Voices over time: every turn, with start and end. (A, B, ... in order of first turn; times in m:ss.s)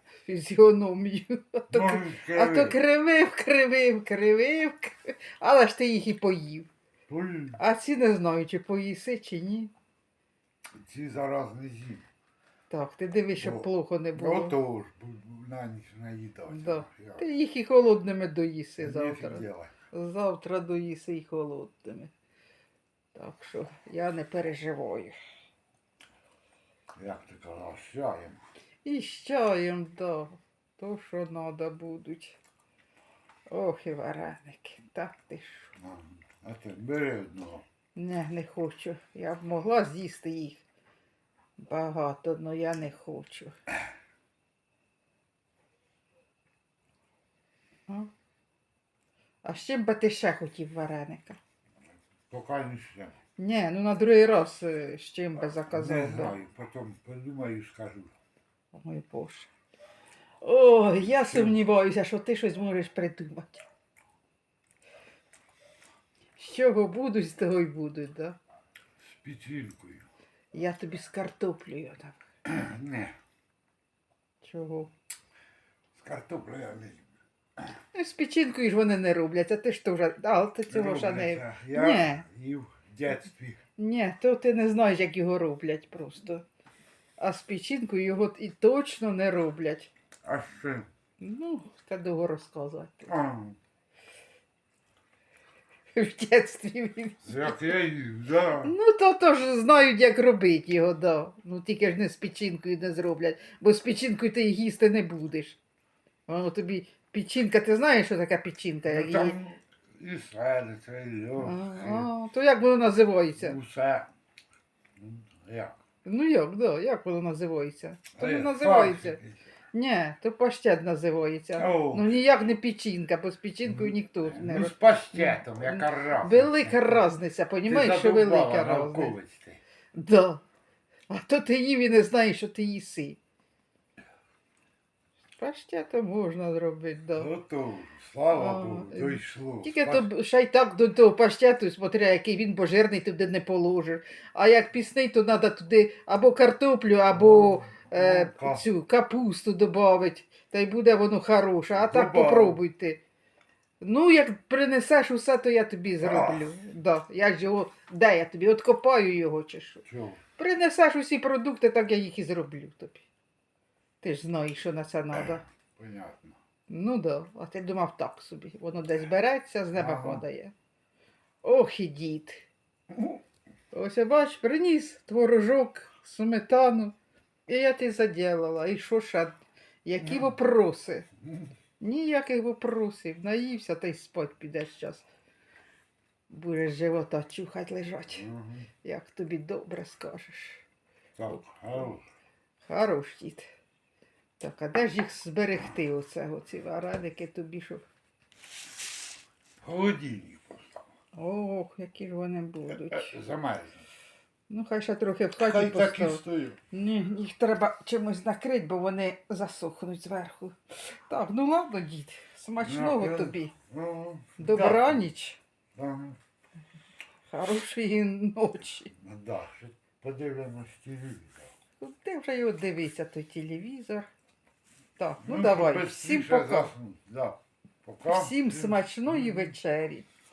0:00.2-0:06.7 A
0:01.7-0:02.8 B
0:07.1-0:07.6 B
0:07.6-0:09.7 A
0:10.8-0:12.0 B
0:12.7-0:14.6 A
0:13.4-0:17.3 B
0:16.5-0:22.1 A
0:18.8-0:19.7 B
0:23.1-0:25.2 A
0:27.0-0:28.4 B
0:28.8-0:32.4 A
0:33.5-0:35.7 A
0:35.8-0:37.6 B
0:38.0-0:40.6 A
0:41.6-0:43.6 A
0:49.4-0:51.4 A
0:52.3-0:53.2 B
0:53.4-0:56.4 A
0:55.7-0:58.1 B
0:58.7-0:59.5 A
1:00.4-1:03.7 A
1:01.0-1:01.6 B
1:06.4-1:08.4 A
1:09.0-1:10.1 B
1:10.5-1:12.2 A
1:12.5-1:13.2 B
1:14.4-1:14.9 A
1:16.0-1:17.1 B
1:17.9-1:22.2 A
1:20.7-1:23.6 B
1:23.8-1:26.4 A
1:27.2-1:29.9 A
1:30.2-1:30.9 B
1:31.2-1:33.1 A
1:33.1-1:33.6 B
1:35.9-1:37.6 A
1:37.2-1:38.7 B
1:38.6-1:45.6 A
1:46.3-1:49.4 A
1:48.9-1:52.1 B
1:51.4-1:53.6 A
1:53.4-1:54.1 B
1:55.0-1:55.8 B
1:56.0-1:59.2 A
1:58.1-1:59.4 B
1:59.7-2:09.2 A
2:01.6-2:02.2 B
2:03.7-2:07.0 B
2:07.7-2:09.6 B
2:09.9-2:10.4 A
2:11.1-2:13.2 A
2:15.4-2:17.3 A
2:17.2-2:20.1 B
2:18.3-2:33.0 A
2:27.1-2:28.6 B
2:31.7-2:32.6 B
2:33.8-2:39.8 A
2:36.0-2:36.5 B
2:39.9-2:40.2 B
2:40.4-2:43.0 A
2:44.0-2:45.4 A
2:45.1-2:46.4 B
2:46.7-2:50.5 A
2:49.7-2:50.2 B
2:51.4-2:52.5 A
2:53.0-2:53.2 B
2:53.7-2:57.0 A
2:57.5-3:01.1 A
3:00.0-3:00.3 B
3:01.8-3:05.1 A
3:06.3-3:08.2 A
3:08.1-3:08.7 B
3:08.8-3:10.6 A
3:11.2-3:12.0 B
3:11.3-3:11.9 A
3:12.6-3:13.5 A
3:14.4-3:17.8 A
3:19.6-3:20.8 B
3:21.2-3:23.2 A
3:22.7-3:23.9 B
3:24.5-3:33.6 A
3:25.4-3:26.6 B
3:32.6-3:35.0 B
3:34.4-3:35.4 A
3:35.8-3:36.2 B
3:37.3-3:38.9 A
3:39.0-3:41.5 B
3:41.8-3:44.1 A
3:45.0-3:46.7 A
3:45.2-3:49.6 B
3:48.1-3:50.1 A